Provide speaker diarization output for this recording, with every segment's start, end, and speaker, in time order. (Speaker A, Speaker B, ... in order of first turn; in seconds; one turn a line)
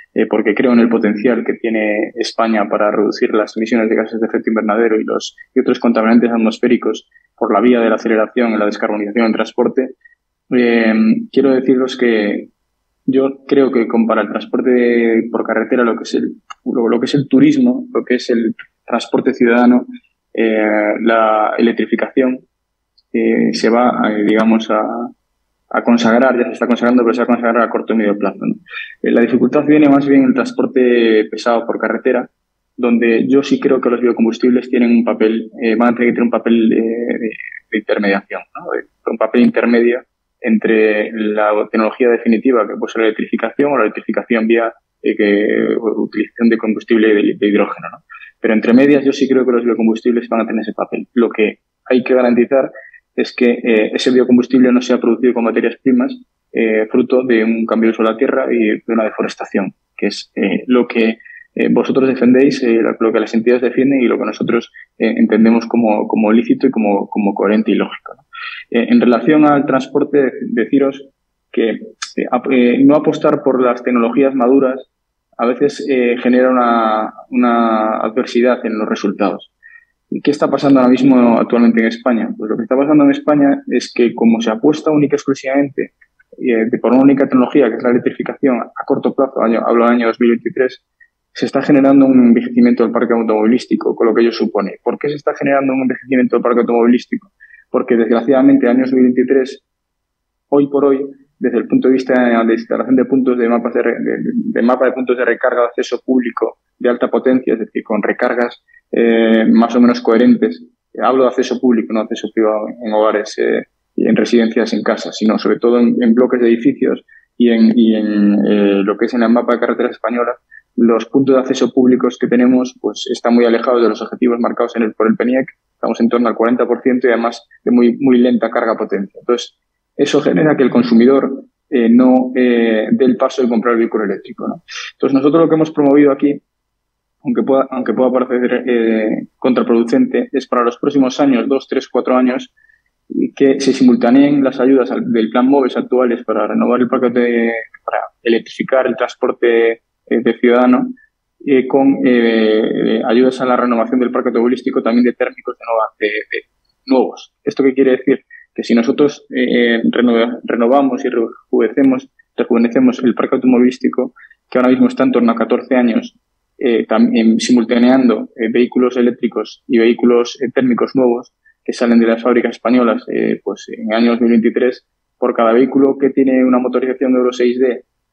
Speaker A: 0.1-9.9
Speaker A: 10.5-12.5
Speaker A: 13.1-22.4
Speaker A: 23.1-25.1
Speaker A: 25.7-74.9
Speaker A: 75.4-79.5
Speaker A: 80.1-90.8
Speaker A: 91.3-99.6
Speaker A: 100.5-136.4
Speaker A: 137.2-142.5
Speaker A: 143.1-177.8